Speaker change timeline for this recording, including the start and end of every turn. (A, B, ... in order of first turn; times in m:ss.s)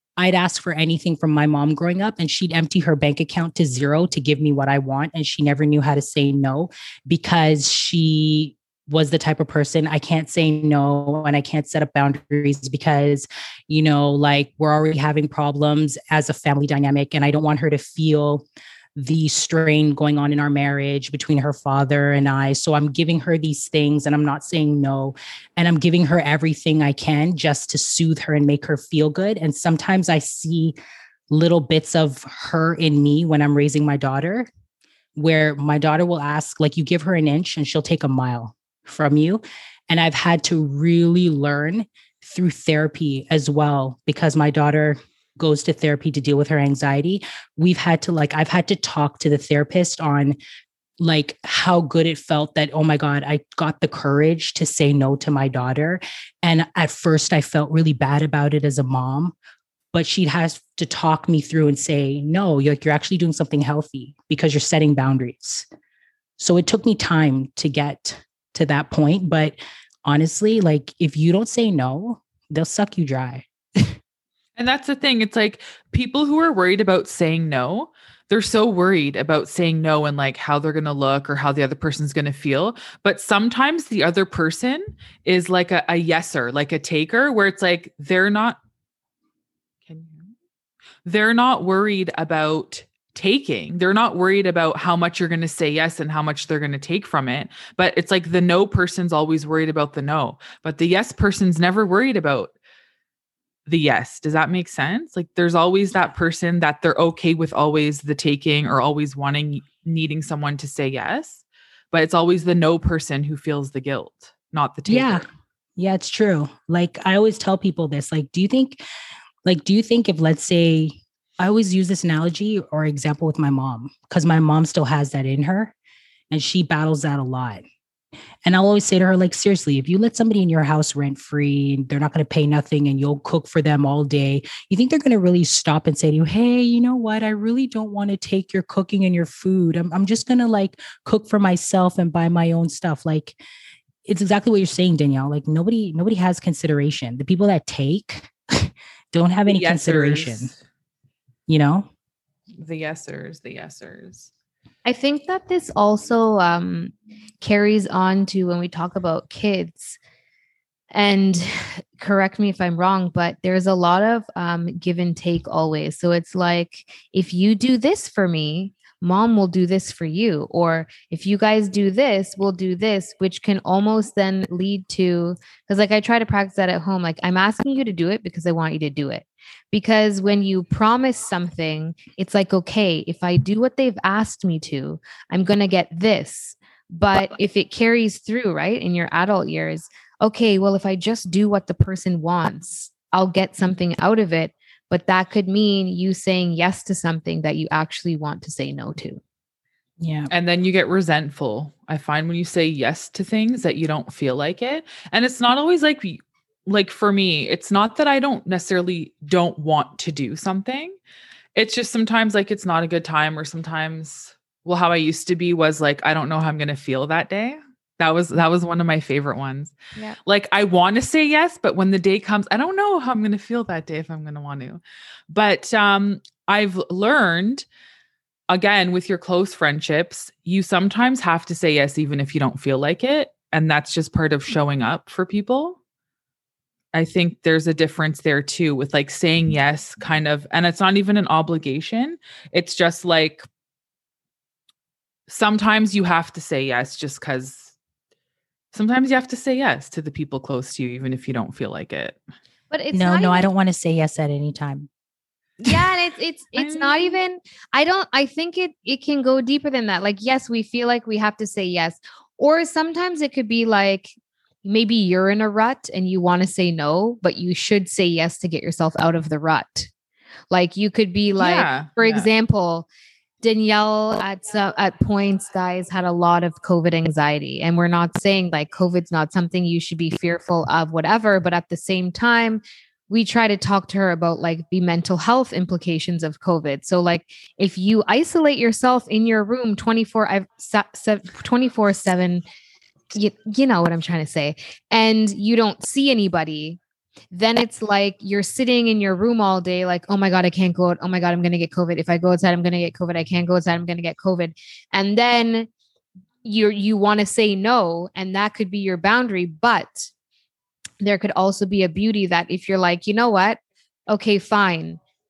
0:00.2-0:18.4 A
0:19.0-0:30.8 A
0:31.3-0:34.5 A
0:35.2-0:50.4 A
0:51.0-0:59.3 A
0:59.9-1:05.6 A
1:06.4-1:14.0 A
1:14.6-1:28.6 B
1:29.9-1:30.3 B
1:31.0-1:42.5 B
1:43.7-1:55.2 B
1:54.9-1:55.2 A
1:55.8-1:58.8 A
1:59.4-2:05.7 A
2:06.3-2:07.6 A
2:08.4-2:23.4 A
2:24.0-2:30.5 A
2:29.4-2:30.6 B
2:31.5-2:31.9 A
2:32.6-2:34.3 B
2:34.8-2:40.0 C
2:40.9-3:19.2 C
3:20.0-3:20.3 A
3:20.3-3:31.0 B
3:31.5-3:47.6 B
3:48.5-3:55.8 B
3:56.9-4:03.4 B
4:05.3-4:07.7 B
4:08.7-4:12.2 B
4:12.7-4:13.5 C
4:12.9-4:14.9 A
4:15.6-4:29.9 C
4:16.5-4:17.2 B
4:30.5-4:32.9 C
4:31.4-4:32.3 B
4:33.4-4:52.4 C
4:53.1-4:56.8 C
4:57.3-5:05.7 C
5:06.4-5:10.1 C
5:11.0-5:13.6 C
5:14.1-5:15.0 C